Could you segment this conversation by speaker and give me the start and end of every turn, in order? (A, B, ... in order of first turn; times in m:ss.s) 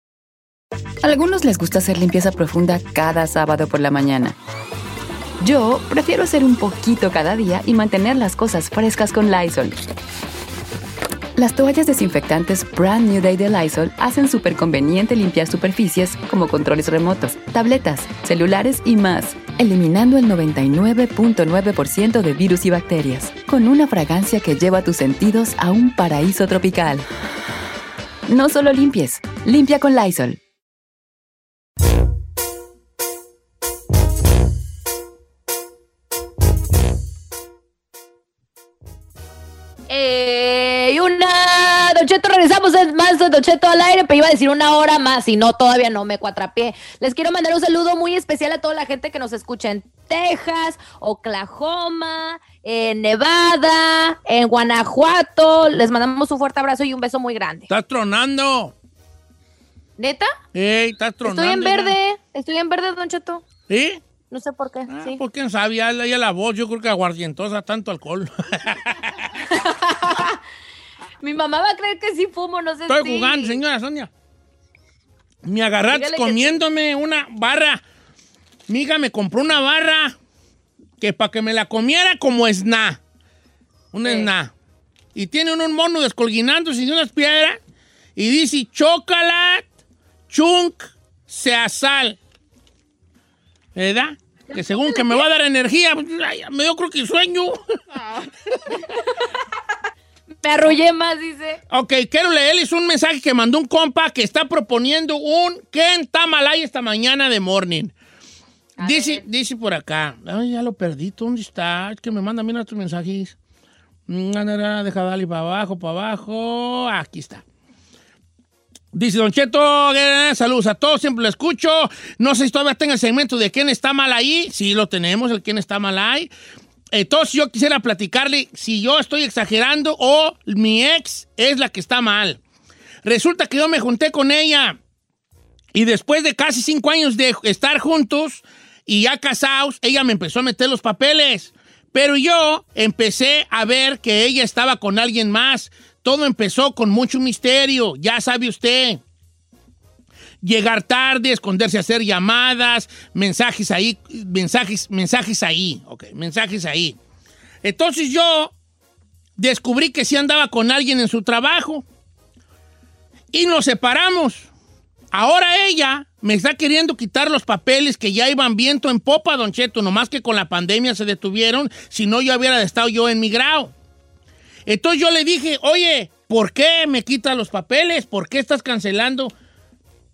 0:01.0-0:04.4 A
0:05.4-0:09.9 A
0:11.4-0:27.1 A
0:28.3-0:30.4 A
0:39.9-0:57.7 B
0:57.7-0:58.7 C
1:00.0-1:00.3 B
1:00.5-1:02.0 C
1:01.2-1:03.4 B
1:03.7-1:04.0 C
1:04.3-1:05.2 B
1:04.9-1:09.2 C
1:09.5-1:10.4 B
1:11.2-1:13.6 B
1:12.9-1:14.1 C
1:15.4-1:17.8 C
1:15.9-1:16.6 B
1:18.7-1:20.2 C
1:21.0-1:23.0 C
1:23.9-1:24.5 C
1:24.0-1:24.3 B
1:25.2-1:27.6 C
1:28.2-1:29.7 C
1:30.3-1:32.2 C
1:33.8-1:37.6 C
1:34.5-1:35.2 B
1:40.4-1:41.6 B
1:41.7-1:47.9 C
1:48.8-1:49.2 B
1:48.8-1:53.4 C
1:54.1-1:57.4 C
1:58.9-2:06.3 C
2:06.9-2:12.4 C
2:13.0-2:14.8 C
2:15.7-2:29.0 C
2:30.4-2:37.0 C
2:37.6-2:38.5 C
2:39.4-2:41.8 C
2:43.3-2:44.5 C
2:45.1-2:53.7 C
2:54.7-2:59.3 C